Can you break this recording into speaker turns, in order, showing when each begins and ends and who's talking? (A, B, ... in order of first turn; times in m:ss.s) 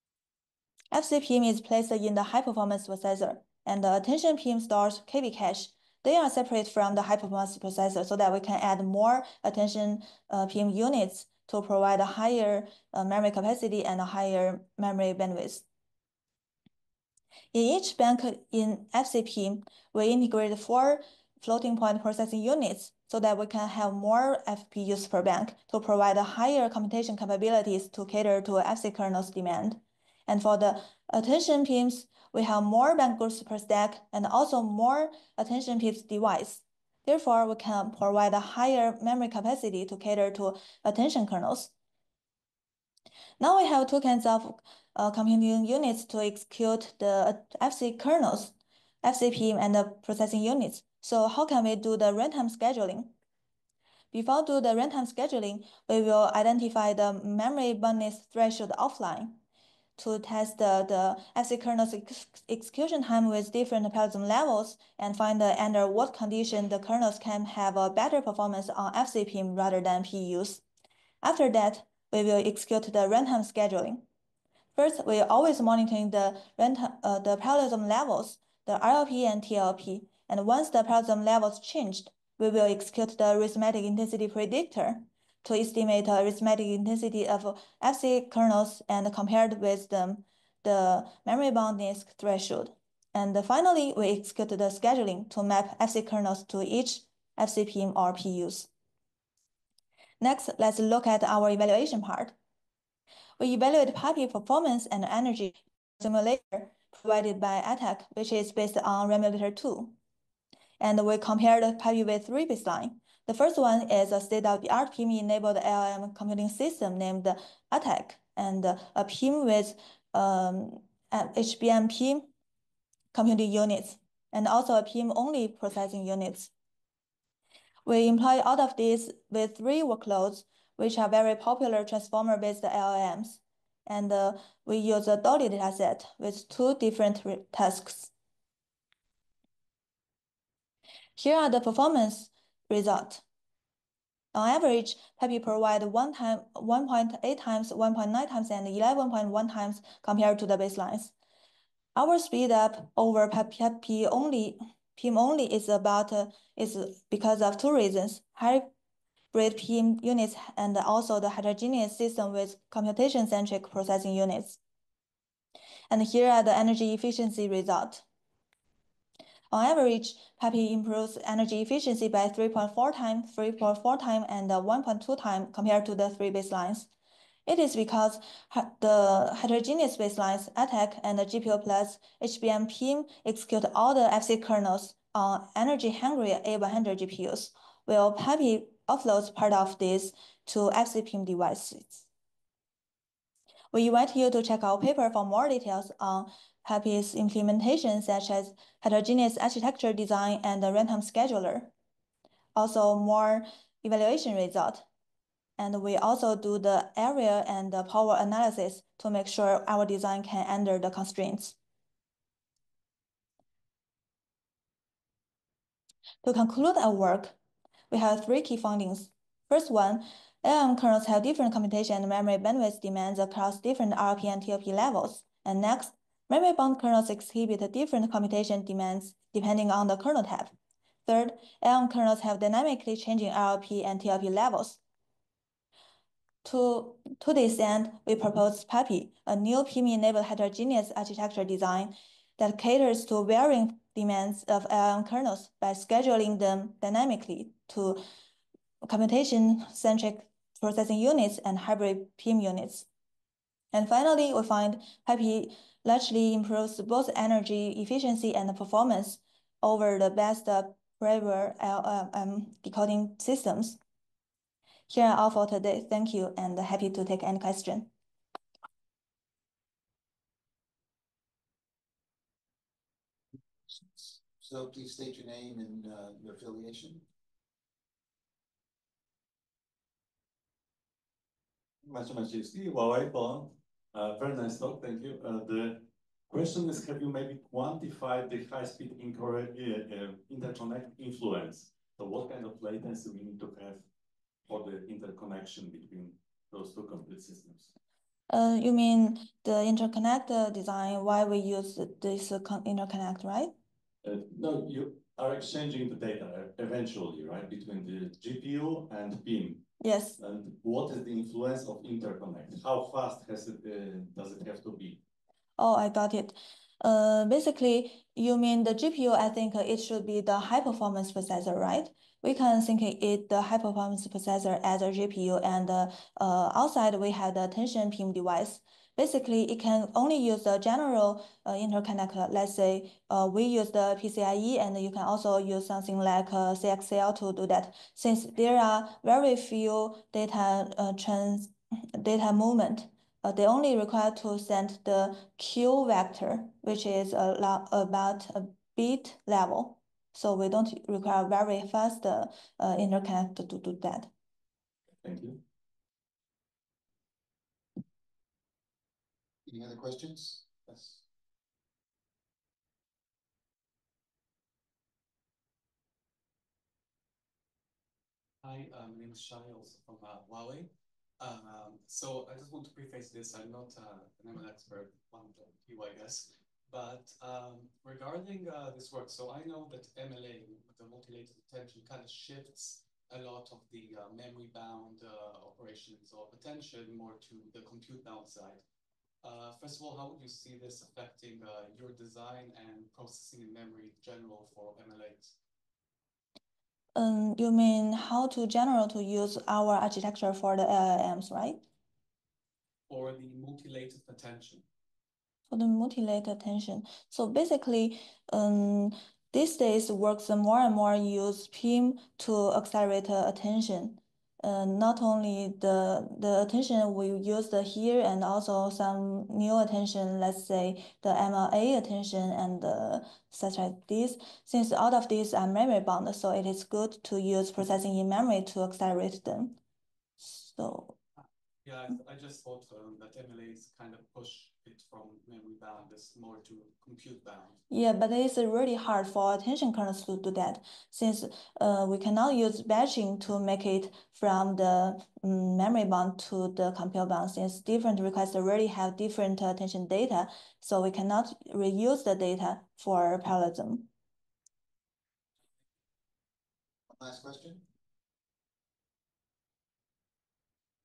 0:00.9-0:15.6 A
0:17.5-0:41.7 A
0:43.4-0:53.1 A
0:54.1-0:59.4 A
1:00.0-1:10.6 A
1:11.2-1:14.0 A
1:14.7-1:38.7 A
1:40.2-1:42.4 A
1:43.4-1:50.0 A
1:50.8-2:02.3 A
2:03.1-2:06.5 A
2:07.8-2:18.1 A
2:21.2-2:23.2 A
2:24.3-2:31.1 A
2:31.9-2:38.7 A
2:39.3-2:44.6 A
2:45.9-2:48.0 A
2:49.5-2:56.9 A
2:57.4-3:12.1 A
3:13.7-3:21.7 A
3:22.6-3:24.8 A
3:25.6-3:31.6 A
3:36.2-3:37.4 A
3:37.9-3:50.5 A
3:51.0-3:54.8 A
3:56.4-4:08.0 A
4:08.8-4:12.9 A
4:13.7-4:23.8 A
4:24.9-4:27.9 A
4:33.7-4:37.0 B
4:41.8-4:53.8 C
4:54.5-4:57.7 C
4:58.3-5:03.5 A
5:04.0-5:09.6 C
5:09.8-5:10.2 A
5:10.2-5:15.0 C
5:15.6-5:54.1 A
5:55.0-5:55.4 C
5:59.5-6:01.0 B
6:08.4-6:28.6 D
6:29.2-6:35.3 D
6:36.9-6:41.6 A
6:42.9-6:44.6 D
6:45.5-7:09.6 A
7:10.2-7:11.0 A
7:11.6-7:17.6 D
7:17.7-7:33.9 A
7:36.9-7:37.6 B